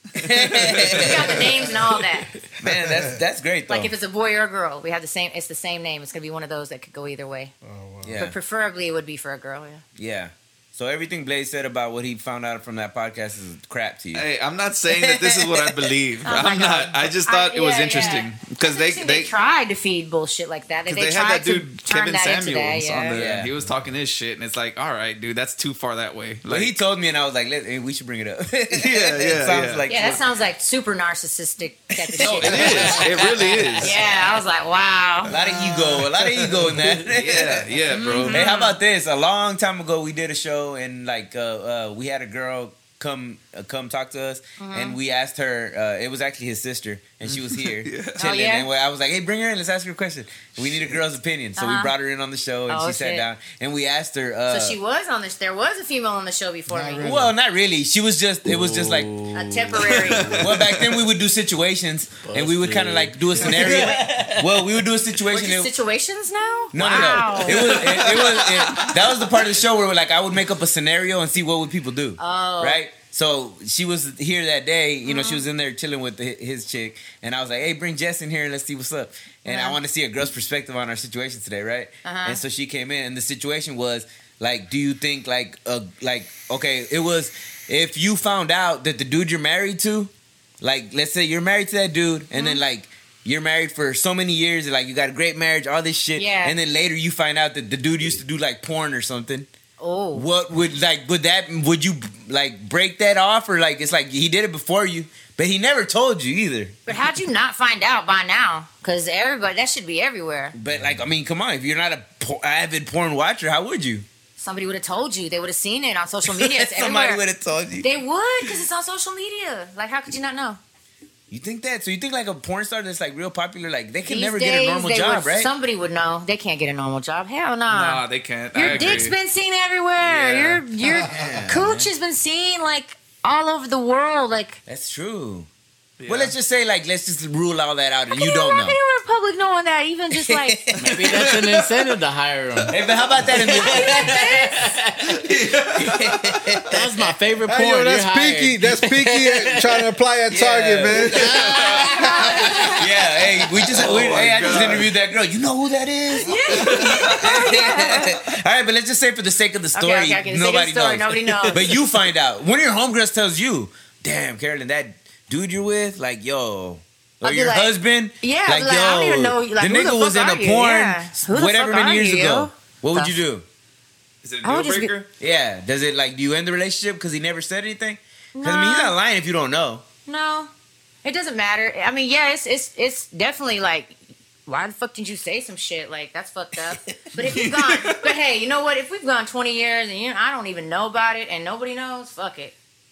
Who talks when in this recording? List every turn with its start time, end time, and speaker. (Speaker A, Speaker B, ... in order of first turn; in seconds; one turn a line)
Speaker A: 0.1-1.7
Speaker B: 0.4-1.7
Speaker C: 0.8-2.3
Speaker A: 2.6-3.9
Speaker D: 2.6-3.2
Speaker C: 3.7-7.5
Speaker D: 7.6-8.2
Speaker A: 8.0-8.4
Speaker C: 8.2-9.8
Speaker A: 9.9-14.3
Speaker B: 14.1-19.3
Speaker A: 14.9-15.9
Speaker C: 16.2-23.2
Speaker B: 20.9-26.8
Speaker A: 23.1-23.6
Speaker A: 26.5-30.2
Speaker B: 28.7-29.9
Speaker C: 29.9-35.4
Speaker A: 32.1-33.3
Speaker B: 32.2-34.0
Speaker A: 35.3-54.8
Speaker B: 36.5-38.5
Speaker C: 37.9-38.8
Speaker C: 44.6-45.0
Speaker B: 47.3-48.2
Speaker C: 48.1-48.7
Speaker B: 50.6-51.0
Speaker C: 51.6-51.9
Speaker C: 52.7-53.3
Speaker C: 54.5-57.1
Speaker D: 56.7-57.4
Speaker A: 57.0-59.1
Speaker E: 58.4-60.6
Speaker C: 59.3-60.3
Speaker B: 59.8-61.1
Speaker A: 60.3-65.7
Speaker E: 62.2-64.7
Speaker C: 65.3-68.0
Speaker A: 66.7-99.5
Speaker B: 66.8-69.4
Speaker C: 72.2-72.8
Speaker C: 75.1-75.4
Speaker C: 79.5-79.8
Speaker C: 82.0-82.4
Speaker C: 92.3-92.6
Speaker C: 96.2-96.6
Speaker C: 99.8-100.3
Speaker A: 100.1-106.8
Speaker C: 106.9-110.6
Speaker A: 110.5-114.1
Speaker D: 110.7-111.0
Speaker C: 114.4-117.2
Speaker A: 116.3-117.9
Speaker C: 117.8-120.6
Speaker A: 121.3-125.5
Speaker C: 124.0-134.6
Speaker B: 127.7-129.2
Speaker A: 128.6-129.0
Speaker B: 130.0-130.7
Speaker A: 130.9-131.9
Speaker D: 130.9-131.4
Speaker A: 134.7-135.5
Speaker B: 136.0-136.3
Speaker A: 136.1-138.8
Speaker C: 138.1-140.6
Speaker A: 140.2-141.3
Speaker E: 140.8-145.1
Speaker A: 142.7-144.2
Speaker C: 143.4-144.7
Speaker B: 145.0-146.8
Speaker A: 145.8-146.7
Speaker E: 146.7-149.9
Speaker D: 147.4-151.4
Speaker A: 150.3-152.0
Speaker E: 151.1-152.8
Speaker B: 151.2-152.0
Speaker C: 151.9-152.8
Speaker A: 152.7-173.4
Speaker B: 153.7-154.9
Speaker C: 156.1-158.2
Speaker B: 156.5-157.5
Speaker C: 159.7-161.7
Speaker C: 167.2-173.2
Speaker B: 174.2-175.1
Speaker C: 174.4-174.9
Speaker A: 175.2-179.8
Speaker C: 178.3-178.9
Speaker C: 180.1-180.5
Speaker C: 181.0-192.6
Speaker B: 187.2-188.2